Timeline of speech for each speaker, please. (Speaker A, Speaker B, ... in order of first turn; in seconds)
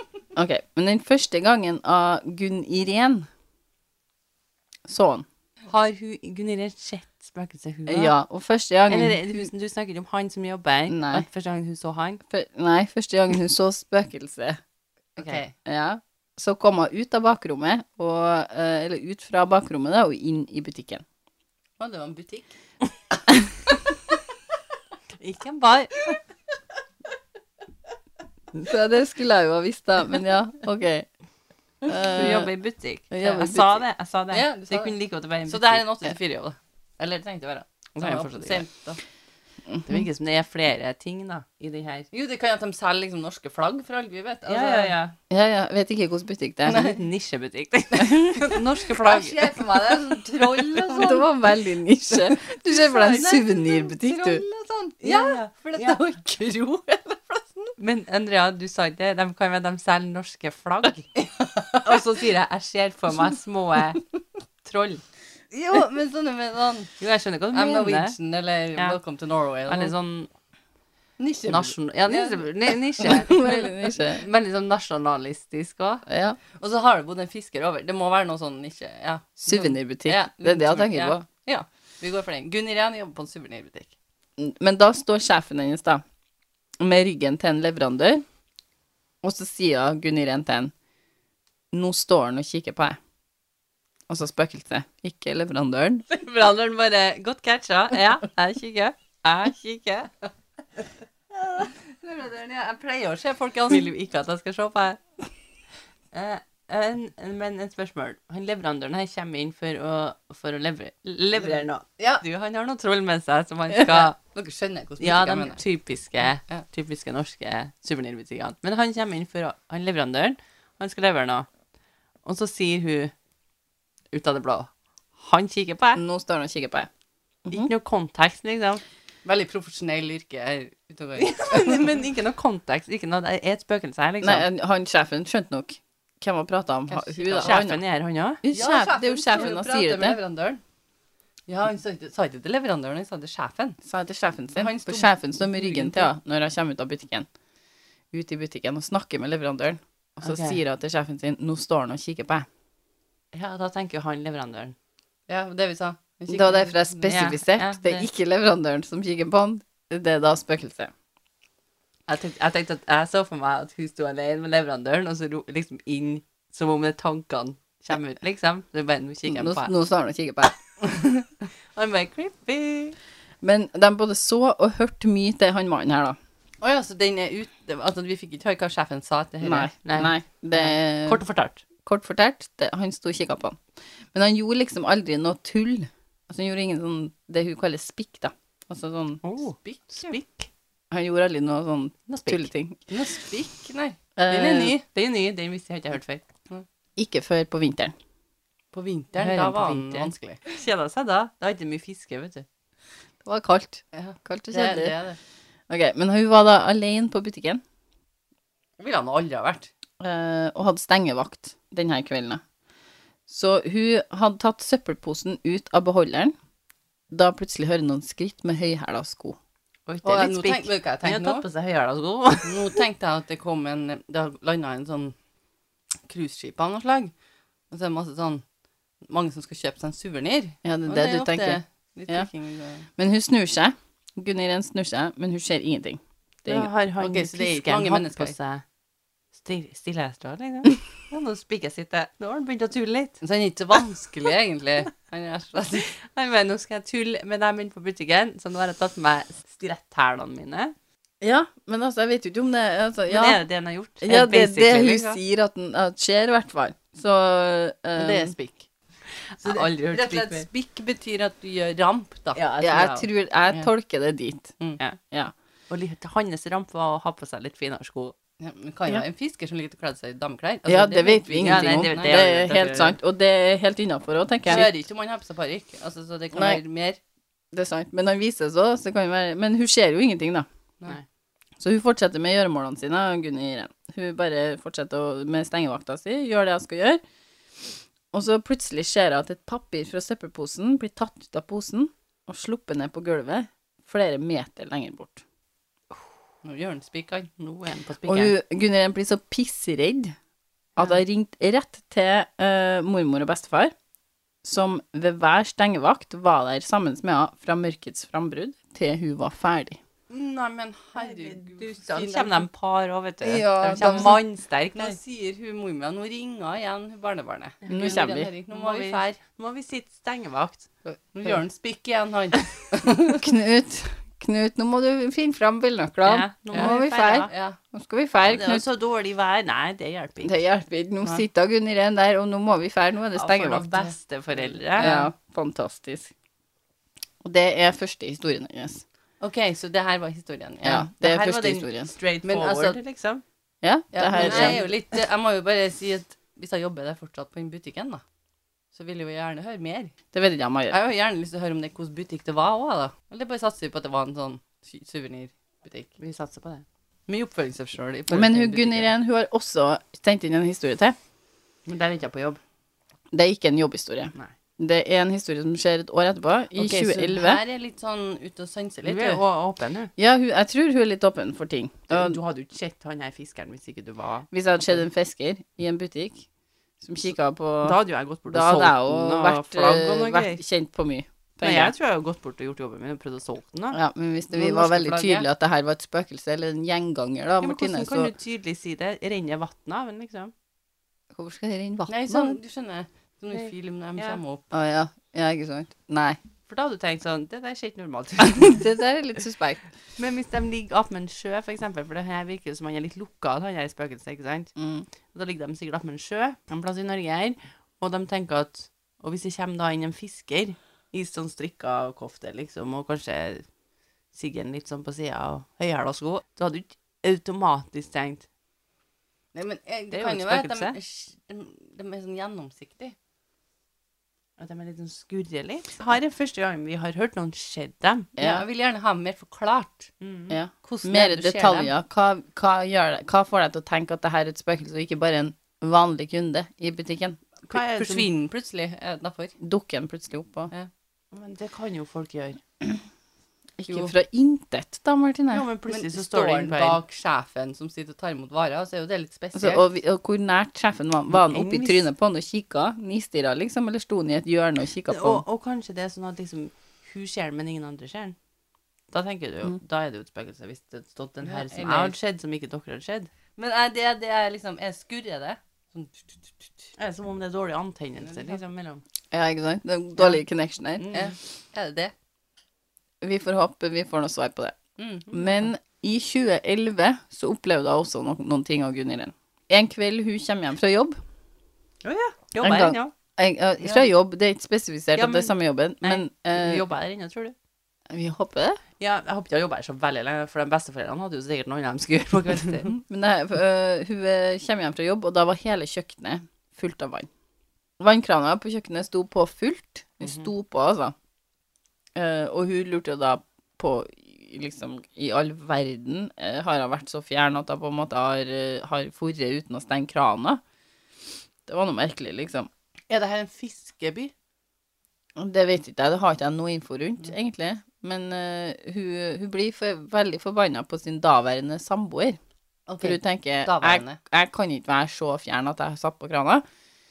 Speaker A: 0.3-3.3, 4.9-5.2, 7.9-9.5, 10.9-11.2, 12.3-14.6, 15.2-21.0, 28.5-31.1, 31.8-32.5, 33.1-33.8, 39.7-40.0, 45.3-46.9, 50.9-54.4, 73.0-74.2, 76.1-76.4, 79.4-81.2, 84.4-86.0, 86.8-88.2, 89.2-90.7, 91.7-93.0, 94.1-96.0, 126.0-126.9, 134.2-137.8, 138.4-140.2, 143.8-147.3, 148.1-152.4, 156.3-160.9, 169.3-170.7, 173.4-176.2, 179.4-181.2, 181.8-183.6, 184.1-189.2, 190.9-192.8, 194.2-194.8, 197.0-197.9, 203.2-205.0, 205.7-207.6, 210.0-212.4, 213.3-216.3, 217.1-219.4, 230.6-232.3, 232.9-236.7, 251.2-253.4, 254.0-258.3, 262.6-264.5, 270.6-274.7, 276.3-276.6, 277.5-280.4, 281.6-287.0, 288.1-295.2, 298.0-300.1, 300.8-303.7, 304.4-309.8, 313.2-314.2, 317.7-318.3, 323.1-328.6, 330.2-333.9, 334.8-336.1, 337.2-338.8, 340.6-341.9, 343.6-344.6, 350.1-350.7, 358.1-360.9, 363.1-367.4, 370.0-372.2, 374.3-376.2, 376.8-381.7, 383.7-388.1, 391.1-392.4, 394.5-396.2, 398.3-399.6, 404.6-404.9, 428.2-428.4, 430.3-437.2, 439.4-440.5, 443.6-445.4, 449.3-455.2, 469.1-470.9, 473.0-474.6, 475.1-481.0, 482.4-486.6, 487.9-488.6, 492.7-497.1, 497.8-500.9, 501.9-510.4, 511.5-512.5, 515.2-522.2, 522.8-526.4
Speaker B: 5.7-8.1, 8.9-12.2, 25.2-26.0, 32.1-35.8, 38.0-38.6, 39.8-42.1, 44.5-45.1, 46.7-49.5, 50.4-50.9, 55.0-56.0, 57.8-61.1, 61.8-64.0, 64.6-65.0, 67.0-68.2, 69.7-70.3, 71.5-76.0, 96.1-100.1, 103.1-105.0, 106.1-114.2, 115.0-121.5, 122.2-123.1, 124.1-126.0, 127.5-128.8, 131.2-134.4, 137.4-138.4, 150.2-150.6, 153.3-154.7, 157.1-158.1, 162.1-169.7, 171.7-173.0, 179.8-180.1, 181.1-181.6, 189.2-190.5, 192.1-192.5, 194.9-196.2, 199.2-202.4, 219.9-222.8, 236.5-238.6, 239.3-243.2, 245.9-250.7, 253.1-255.2, 258.0-260.5, 262.3-262.9, 265.7-268.1, 271.4-273.0, 297.4-298.3, 310.9-315.0, 317.6-320.6, 326.0-327.3, 328.2-330.4, 333.1-335.0, 340.9-343.2, 344.1-344.7, 356.0-356.6, 361.6-362.4, 368.8-369.9, 371.9-374.3, 377.6-380.4, 381.4-383.8, 387.4-390.3, 393.3-394.2, 396.5-398.6, 400.0-404.5, 405.1-413.4, 414.1-418.2, 419.9-420.8, 424.4-428.1, 430.0-430.4, 437.5-438.1, 441.1-442.4, 445.3-446.8, 451.1-451.9, 454.9-458.1, 458.9-463.1, 466.8-468.8, 470.8-471.1, 481.8-482.9, 484.9-487.3, 488.8-492.7, 513.1-514.0
Speaker C: 15.2-15.5, 21.8-22.5, 34.3-39.0, 42.1-45.0, 46.6-47.0, 48.0-51.3, 52.7-57.8, 61.2-62.1, 65.5-67.0, 67.5-69.9, 71.2-73.1, 76.5-83.9, 102.0-103.8, 111.4-112.2, 113.9-115.6, 129.2-131.9, 136.9-137.6, 138.5-140.6, 141.5-143.8, 144.5-146.1, 155.3-157.2, 176.6-180.0, 189.6-190.1, 192.9-194.8, 198.7-200.4, 203.9-205.2, 208.8-209.7, 220.0-221.4, 222.4-225.1, 226.1-227.1, 227.7-228.4, 229.1-232.9, 237.0-238.3, 243.2-245.9, 258.0-258.3, 259.4-263.0, 268.4-272.3, 274.4-277.0, 296.4-297.3, 310.1-312.4, 313.6-314.2, 314.7-319.2, 321.1-323.2, 327.2-327.6, 334.5-335.1, 339.2-340.9, 342.2-342.8, 343.9-348.0, 348.7-349.9, 350.7-355.9, 357.1-358.9, 366.5-369.2, 384.3-385.2, 391.9-394.4, 419.3-422.9, 428.2-429.9, 430.6-431.7, 437.5-439.3, 445.7-449.6, 461.2-461.9, 463.4-466.7, 468.1-468.4, 470.9-471.9, 474.8-475.4, 512.9-514.1, 522.7-524.0